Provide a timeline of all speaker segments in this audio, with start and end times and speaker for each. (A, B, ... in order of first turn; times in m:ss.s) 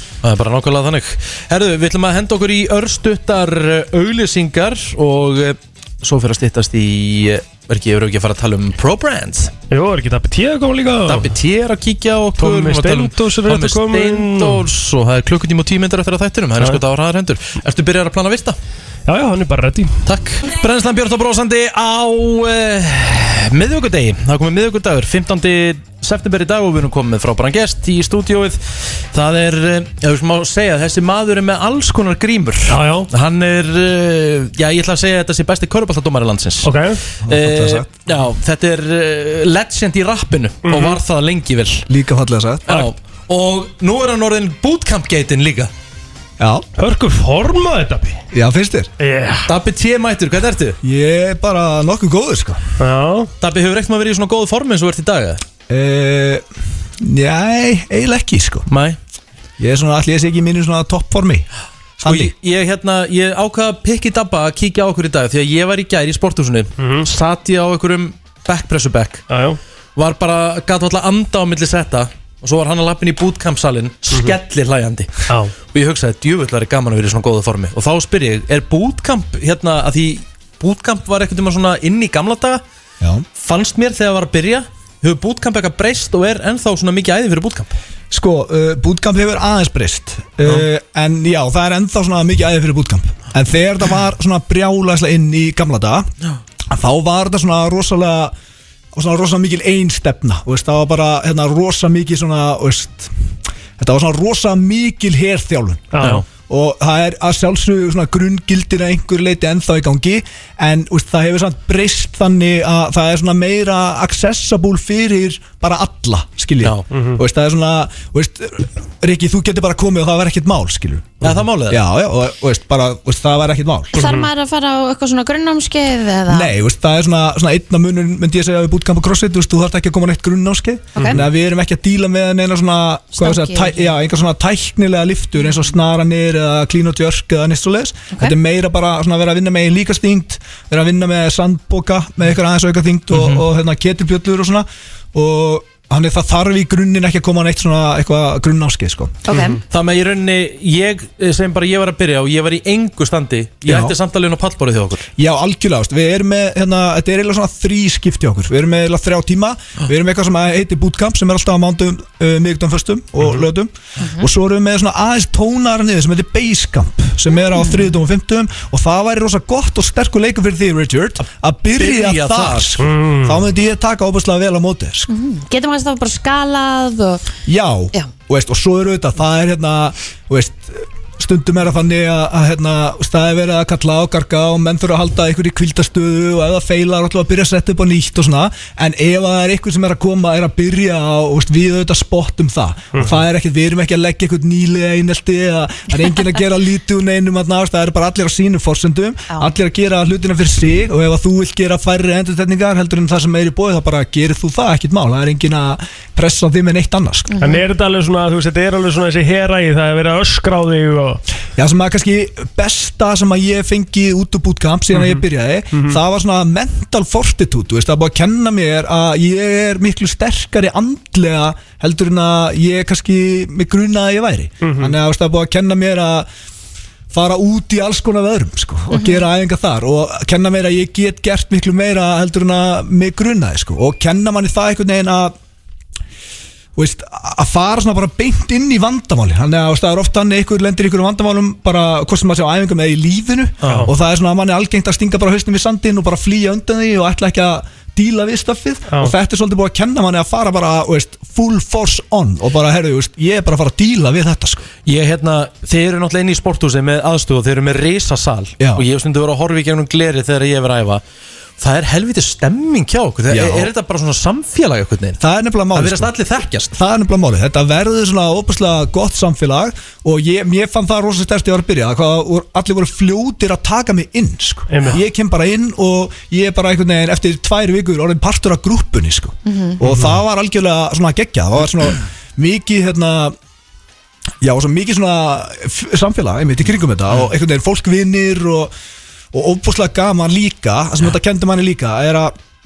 0:00.2-0:09.5 A
0:09.7-0:11.3 B
0:11.1-0:18.6 A
0:12.4-0:14.6 B
0:19.1-0:20.0 B
0:20.0-0:41.9 A
0:32.7-0:33.1 B
0:36.6-0:37.0 B
0:37.3-0:37.8 C
0:40.6-0:41.0 B
0:41.9-0:42.8 C
0:42.6-0:45.7 A
0:46.4-0:46.6 C
0:46.8-0:48.2 B
0:48.3-0:48.9 C
0:49.0-0:49.5 B
0:49.4-0:50.8 A
0:50.8-0:52.6 C
0:52.8-0:53.3 B
0:53.4-0:55.4 A
0:55.7-0:56.4 C
0:57.0-0:58.6 C
0:58.7-0:59.0 A
0:59.6-1:01.5 C
1:02.0-1:09.2 A
1:02.0-1:02.3 C
1:06.8-1:07.1 B
1:09.3-1:09.6 B
1:10.0-1:22.6 A
1:15.3-1:15.5 B
1:23.0-1:23.2 C
1:23.4-1:27.7 A
1:28.1-1:36.1 C
1:36.7-1:38.3 C
1:38.9-1:43.1 C
1:43.8-2:04.0 C
1:45.9-1:46.2 B
1:46.0-1:46.2 A
1:56.9-1:57.2 B
2:01.2-2:01.8 A
2:03.9-2:04.3 B
2:03.9-2:06.5 D
2:06.3-2:29.1 C
2:11.0-2:11.2 D
2:13.1-2:13.9 D
2:23.1-2:23.4 A
2:29.2-2:29.6 D
2:29.3-2:29.6 B
2:29.7-2:35.1 A
2:33.6-2:33.9 C
2:35.2-2:55.1 C
2:44.0-2:44.2 D
2:47.6-2:47.8 D
2:51.8-2:52.8 A
2:52.8-2:53.4 B
2:55.1-2:57.4 D
2:57.4-3:27.3 C
3:12.9-3:13.2 B
3:27.3-3:27.6 D
3:27.4-3:31.2 B
3:31.6-3:46.3 C
3:34.9-3:36.0 B
3:44.6-3:45.0 B
3:47.1-3:55.4 C
3:48.9-3:49.3 D
3:56.8-4:14.7 C
4:03.6-4:03.9 A
4:03.6-4:03.9 B
4:08.9-4:09.1 B
4:14.8-4:21.0 A
4:21.6-4:25.2 A
4:23.3-4:23.7 C
4:25.2-4:26.1 C
4:25.7-4:26.7 A
4:26.7-4:43.3 C
4:34.7-4:35.0 B
4:39.4-4:39.8 D
4:39.8-4:40.2 B
4:44.4-4:48.7 C
4:49.3-4:52.3 C